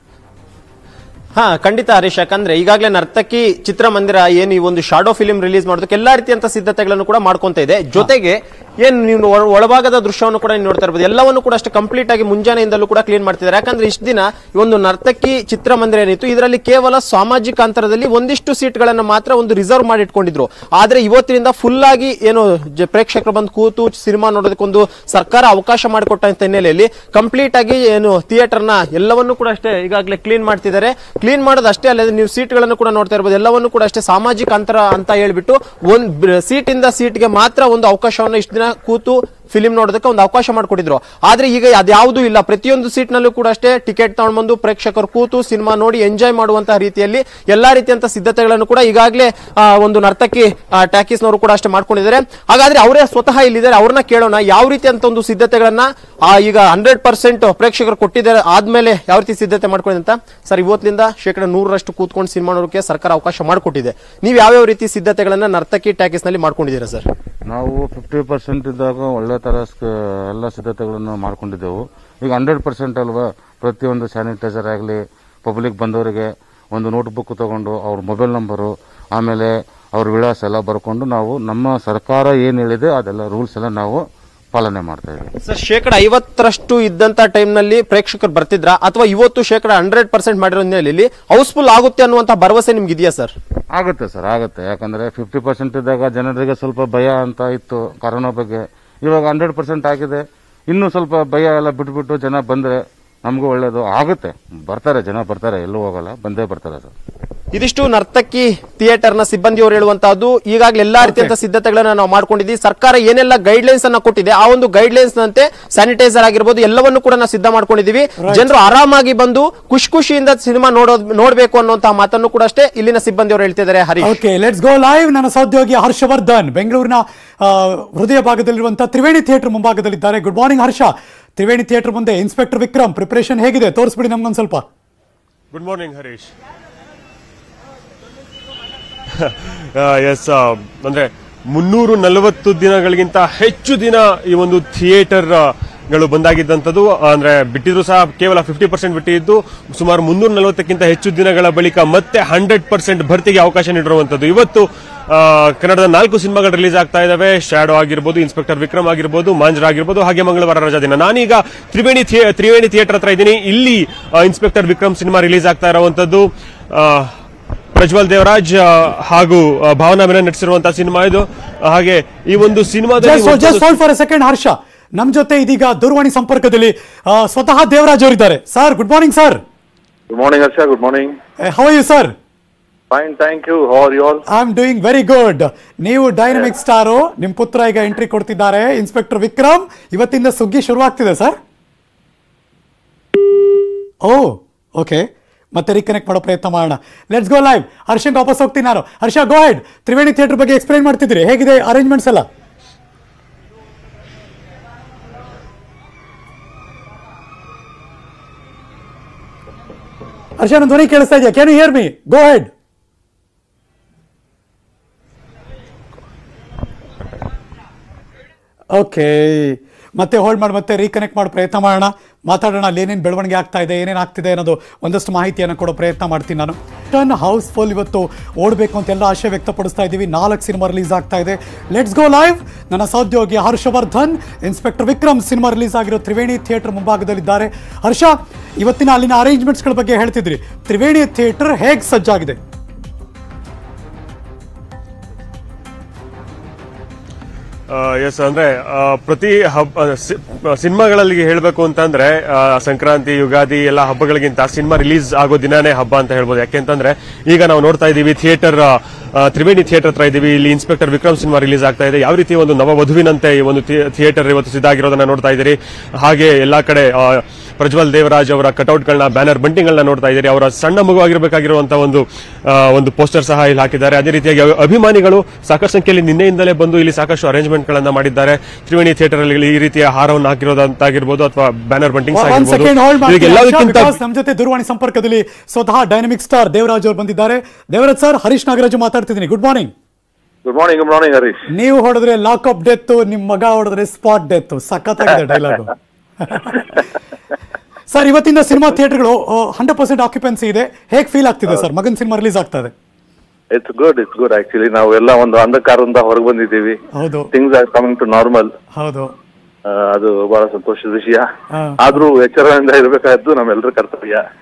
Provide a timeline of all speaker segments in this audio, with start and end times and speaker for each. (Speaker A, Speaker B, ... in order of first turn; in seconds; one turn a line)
Speaker A: 1.4-67.0
Speaker B: 67.5-85.3
Speaker A: 85.5-93.3
Speaker B: 93.7-106.9
Speaker A: 107.5-124.1
Speaker C: 111.0-111.3
Speaker C: 118.2-118.5
Speaker C: 124.0-134.6
Speaker D: 135.5-136.3
Speaker D: 139.1-167.1
Speaker D: 167.7-173.7
Speaker C: 173.0-179.4
Speaker E: 180.1-181.1
Speaker C: 181.4-182.1
Speaker E: 182.9-184.2
Speaker C: 184.3-191.3
Speaker C: 194.0-202.2
Speaker C: 210.4-212.5
Speaker C: 218.7-242.4
Speaker D: 247.7-284.0
Speaker C: 282.1-289.7
Speaker E: 290.4-291.4
Speaker C: 291.5-296.8
Speaker C: 297.9-302.7
Speaker E: 303.5-306.8
Speaker C: 306.9-307.3
Speaker E: 307.3-308.5
Speaker C: 308.8-309.1
Speaker E: 309.7-311.2
Speaker C: 311.5-312.0
Speaker E: 311.8-314.2